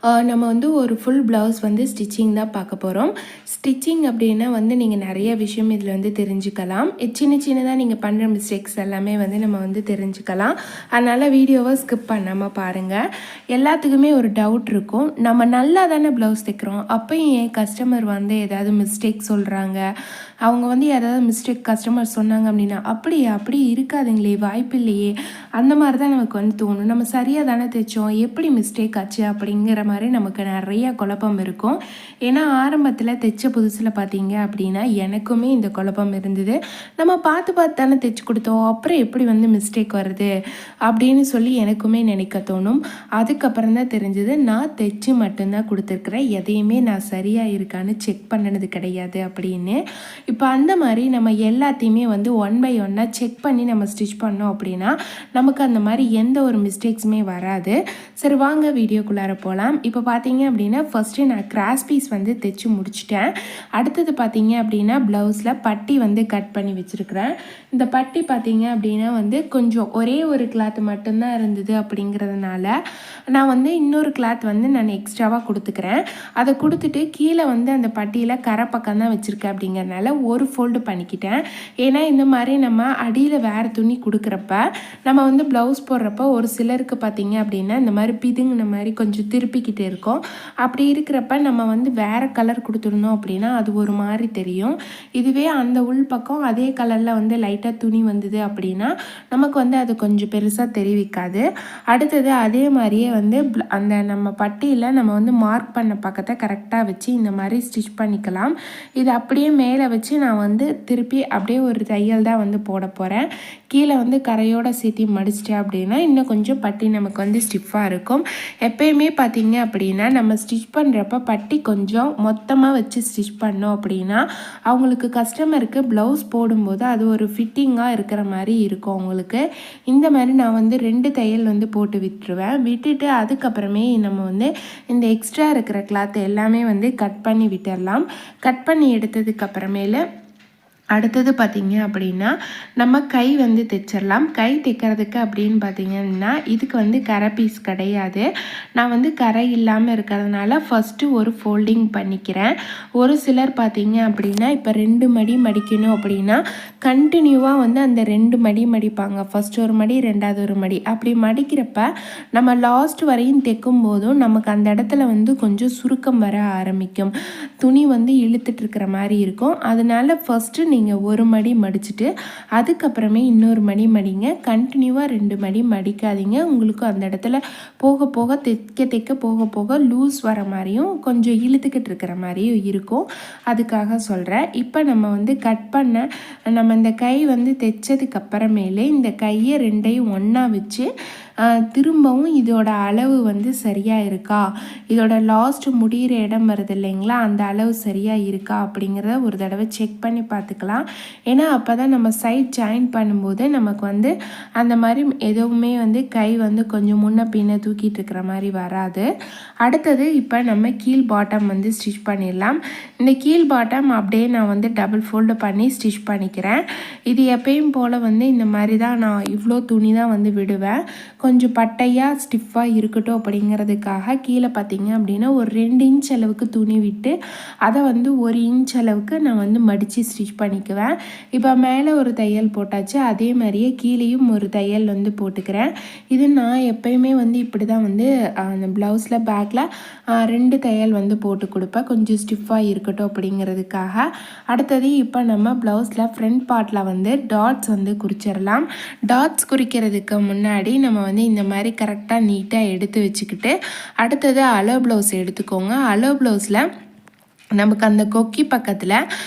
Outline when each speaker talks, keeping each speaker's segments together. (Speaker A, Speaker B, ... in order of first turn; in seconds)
Speaker A: 0.2-13.0, 13.5-19.8, 20.4-40.3, 40.9-49.8, 50.3-72.7, 73.3-140.0, 140.9-148.2, 148.8-167.1, 167.6-172.1, 172.6-190.8, 191.7-194.4, 194.9-209.1, 209.6-239.7, 240.2-256.6, 257.6-259.0